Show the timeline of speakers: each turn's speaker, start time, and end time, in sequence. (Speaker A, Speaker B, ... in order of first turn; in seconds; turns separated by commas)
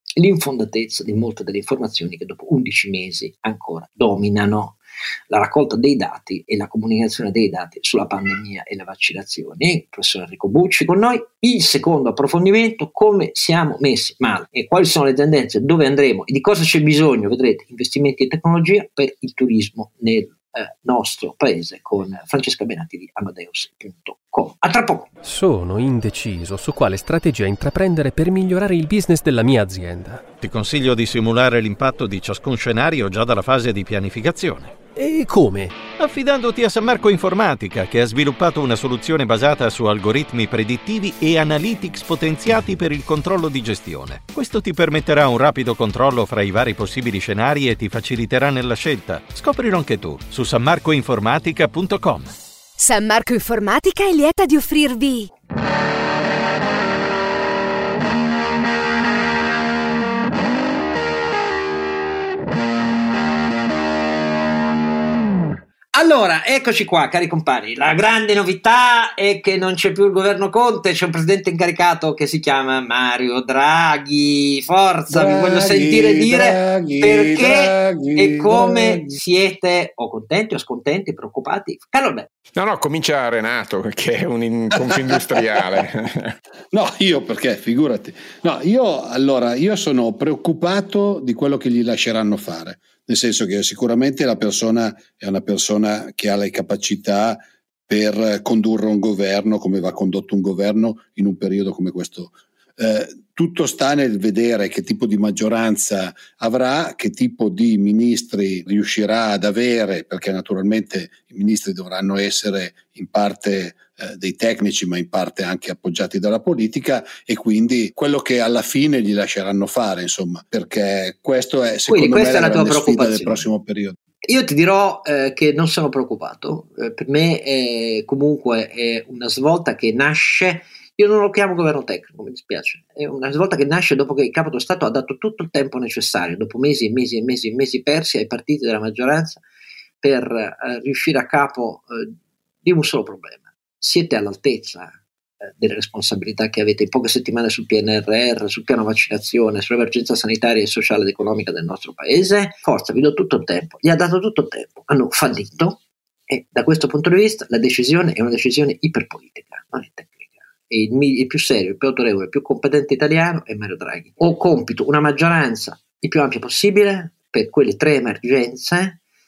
Speaker A: 0.2-4.8, Speaker A: 5.3-25.1, Speaker B: 25.2-30.3, Speaker C: 30.4-34.9, Speaker B: 35.0-35.9, Speaker C: 35.8-52.3, Speaker D: 52.8-55.3, Speaker A: 65.9-82.3, Speaker E: 75.1-79.2, Speaker F: 82.5-86.3, Speaker E: 84.9-85.4, Speaker E: 86.7-124.0, Speaker A: 121.9-123.5, Speaker A: 124.3-139.4, Speaker A: 140.0-145.0, Speaker A: 145.6-169.0